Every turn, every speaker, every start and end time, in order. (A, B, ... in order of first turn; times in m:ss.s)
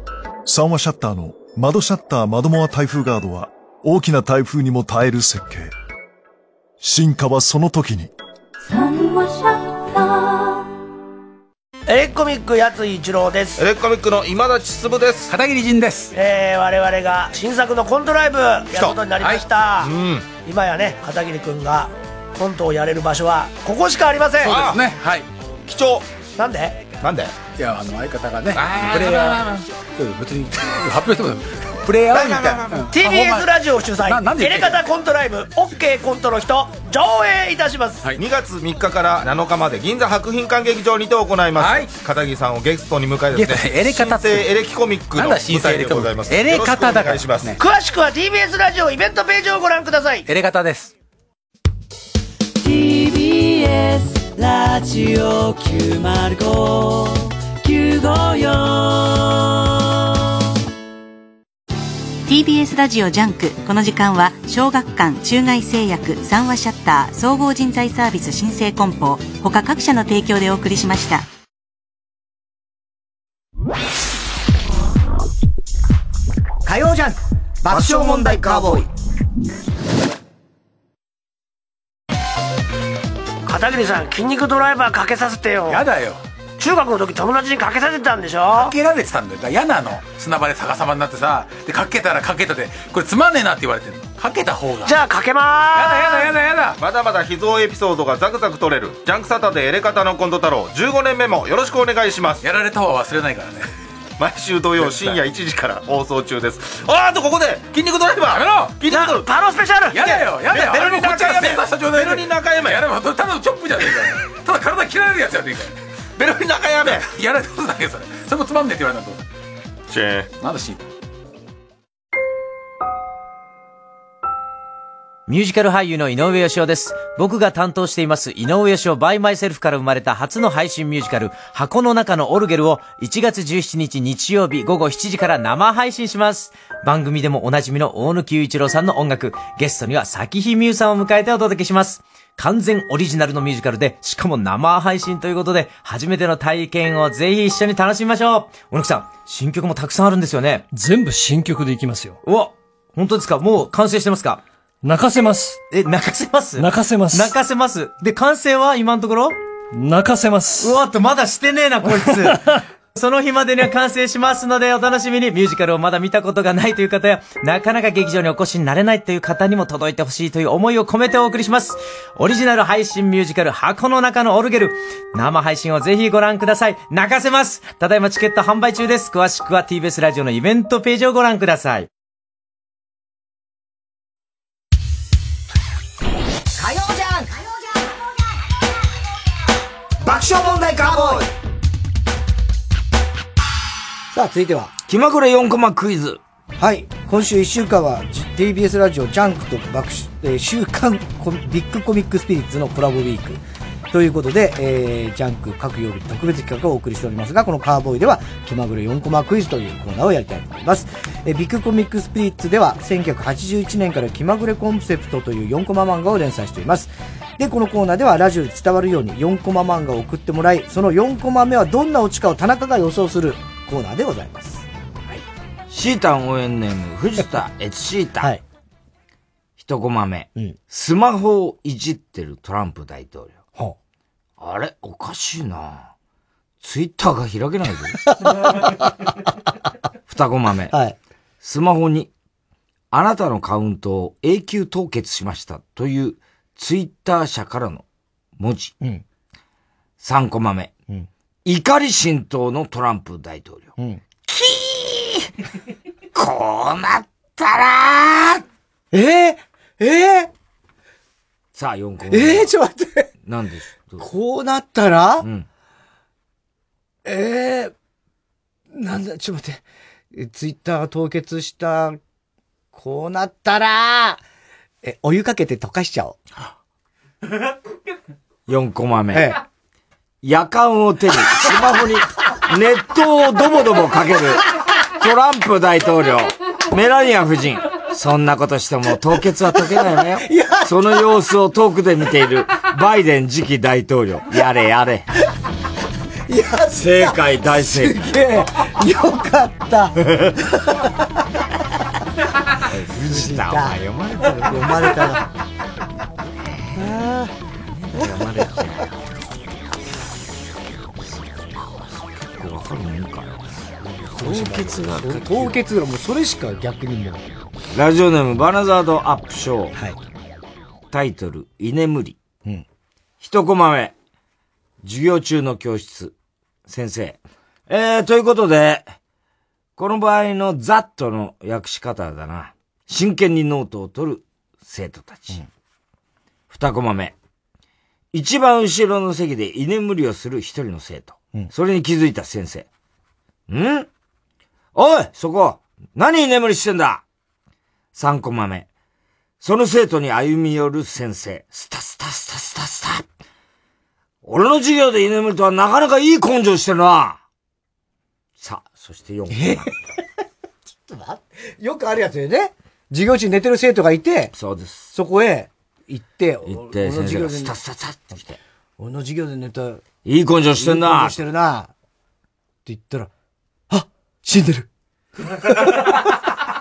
0:00.4-0:05.7 A
0:06.8-0:08.1 A
0:11.9-0:13.6 B
0:13.6-0:15.3 C
0:15.3-0:16.1 D
0:16.1-0:24.7 B
0:19.8-0:20.2 C
0:24.4-0:25.2 D
0:24.5-0:24.8 C
0:25.7-0:26.0 C
0:26.3-0:26.8 B
0:27.0-0:33.4 D
0:32.1-0:38.1 B
0:34.0-0:34.8 D
0:38.2-0:47.6 C
0:41.6-0:42.0 D
0:43.3-0:44.4 D
0:45.1-0:47.6 D
0:47.6-0:50.3 B
0:50.3-0:50.9 D
0:52.6-0:59.5 E
1:02.3-1:11.2 F
1:16.6-1:18.9 G
1:17.7-1:18.8 H
1:23.4-1:25.8 B
1:25.6-1:26.2 D
1:26.6-1:28.8 B
1:28.6-1:35.0 D
1:34.8-1:36.3 B
1:35.7-1:36.8 D
1:36.8-1:42.4 C
1:42.4-1:43.7 D
1:44.2-1:48.4 C
1:44.8-1:45.2 D
1:47.7-1:49.2 D
1:48.8-1:50.2 B
1:49.9-1:55.7 D
1:50.5-1:52.3 C
1:56.2-1:57.1 C
1:56.8-1:59.2 D
1:59.9-2:00.3 C
2:00.4-2:00.8 D
2:05.3-2:30.6 I
2:30.7-2:32.2 J
2:32.2-2:34.4 I
2:34.8-2:35.6 J
2:35.7-2:39.4 I
2:36.6-2:37.4 J
2:39.7-2:40.8 J
2:40.6-2:42.4 I
2:41.9-2:42.3 J
2:42.9-3:01.9 I
3:06.8-3:07.1 G
3:10.1-3:11.2 B
3:10.8-3:11.1 G
3:14.1-3:14.7 G
3:14.9-3:16.2 H
3:16.6-3:44.6 G
3:45.7-3:48.3 H
3:49.6-3:53.4 H
3:54.4-3:55.9 H
3:56.6-3:58.0 H
3:58.1-3:59.1 G
4:00.1-4:00.7 H
4:00.7-4:01.0 G
4:01.4-4:02.1 H
4:02.9-4:07.8 H
4:08.4-4:08.7 H
4:10.0-4:10.7 H
4:11.4-4:13.7 H
4:14.2-4:15.3 H
4:16.1-4:18.4 H
4:18.9-4:20.3 G
4:21.5-4:22.5 H
4:22.1-4:23.1 G
4:23.2-4:24.0 H
4:24.0-4:25.2 G
4:25.2-4:25.4 H
4:27.0-4:27.7 G
4:28.7-4:29.6 G
4:30.1-4:32.0 G
4:32.7-4:34.2 G
4:34.8-4:36.2 G
4:38.5-4:39.3 H
4:39.1-4:39.4 G
4:40.2-4:55.1 H
4:50.2-4:50.7 G
4:56.3-5:00.0 G
4:56.8-4:58.0 H
5:00.1-5:00.4 H
5:02.7-5:05.1 H
5:03.0-5:03.7 G
5:04.4-5:05.3 G
5:06.4-5:06.8 H
5:06.7-5:07.3 G
5:07.8-5:08.9 H
5:07.9-5:08.4 G
5:11.0-5:13.5 H
5:13.9-5:17.2 G
5:14.1-5:15.6 H
5:17.7-5:19.8 H
5:20.9-5:22.2 H
5:23.2-5:23.9 H
5:24.8-5:26.1 H
5:26.6-5:28.9 H
5:29.8-5:35.4 H
5:36.5-5:37.1 H
5:38.1-5:42.7 H
5:43.5-5:43.9 H
5:44.7-5:47.0 H
5:47.9-5:48.7 H
5:49.4-5:53.1 H
5:54.2-5:57.2 H
5:58.4-5:59.7 H
5:59.3-5:59.7 G
6:00.7-6:04.3 G
6:04.3-6:04.9 H
6:04.9-6:07.5 G
6:06.4-6:08.4 H
6:08.8-6:09.8 G
6:10.0-6:11.2 H
6:10.6-6:11.7 G
6:12.6-6:13.1 G
6:13.7-6:14.7 G